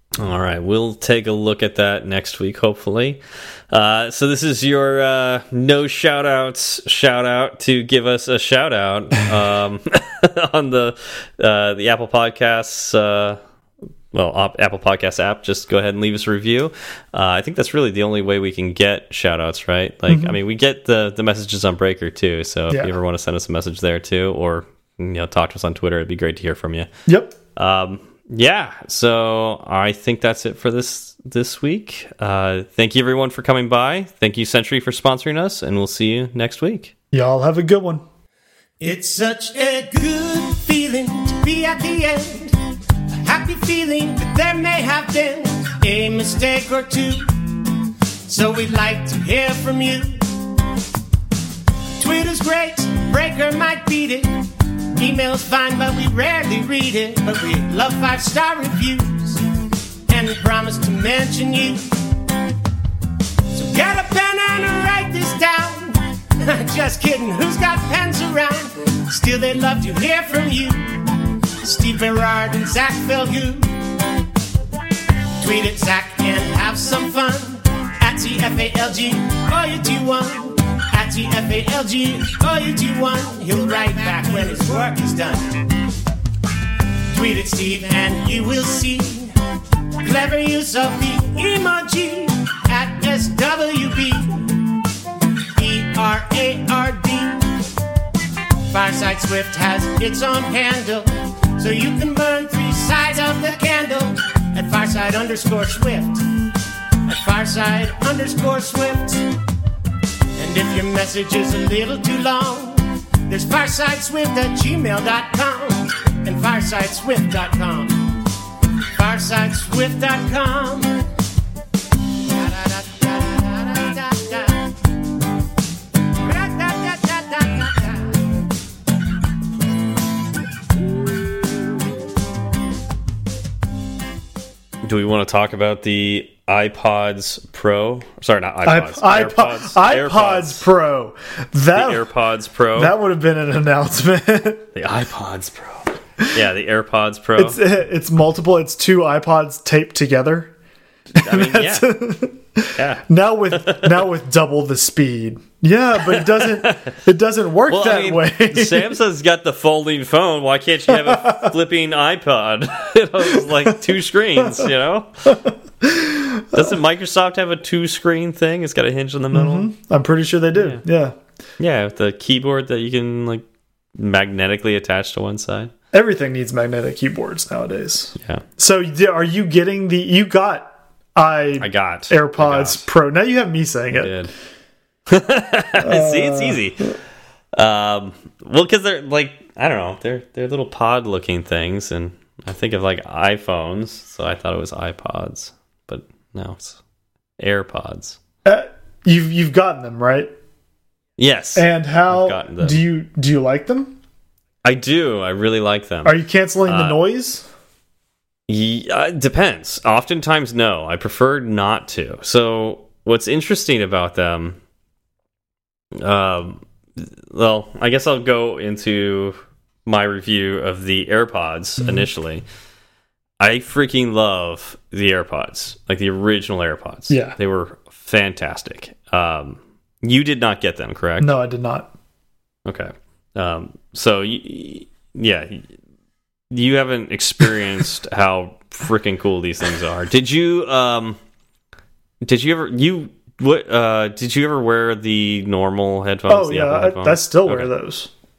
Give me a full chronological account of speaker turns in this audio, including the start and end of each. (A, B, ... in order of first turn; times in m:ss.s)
0:00.2-0:13.4 A
0:14.1-0:26.9 A
0:20.1-0:20.4 B
0:27.1-0:27.4 B
0:27.6-0:36.9 A
0:37.1-0:38.0 B
0:38.8-0:42.6 C
0:43.1-0:47.6 C
0:48.3-0:50.3 C
0:52.0-0:59.4 C
1:00.1-1:01.9 C
1:03.5-1:11.0 C
1:11.6-1:13.7 C
1:15.4-1:25.6 C
1:27.1-1:29.3 C
1:30.0-1:34.6 C
1:35.5-1:37.5 C
1:38.7-1:46.3 C
1:47.1-1:49.3 C
1:50.4-1:58.1 C
1:59.0-2:01.0 C
2:02.3-2:04.8 C
2:06.2-2:08.3 C
2:14.8-2:20.6 A
2:18.6-2:22.0 B
2:21.7-2:23.0 A
2:22.8-2:24.7 B
2:24.8-2:27.6 A
2:27.4-2:30.5 B
2:31.2-2:38.9 B
2:31.2-2:31.9 A
2:32.8-2:34.0 A
2:36.0-2:36.9 A
2:37.7-2:45.3 A
2:40.9-2:41.5 B
2:44.4-2:44.7 B
2:45.3-2:46.7 B
2:46.5-2:49.7 A
2:49.3-2:51.2 B
2:50.6-2:50.8 A
2:51.6-2:55.7 A
2:55.9-3:04.2 B
2:58.2-2:58.4 A
3:01.6-3:02.8 A
3:04.0-3:04.3 A
3:05.1-3:06.9 A
3:05.8-3:06.9 B
3:07.6-3:16.8 A
3:17.4-3:18.2 A
3:18.4-3:20.3 B
3:21.2-3:22.8 A
3:21.6-3:24.0 B
3:24.6-3:26.2 A
3:26.0-3:27.5 B
3:26.7-3:27.0 A
3:28.5-3:34.6 A
3:36.0-3:42.4 A
3:41.8-3:42.1 B
3:43.4-3:51.3 A
3:47.1-3:47.4 B
3:51.2-3:51.9 B
3:52.6-3:55.7 A
3:56.5-4:01.2 A
4:02.2-4:07.7 A
4:06.3-4:08.1 B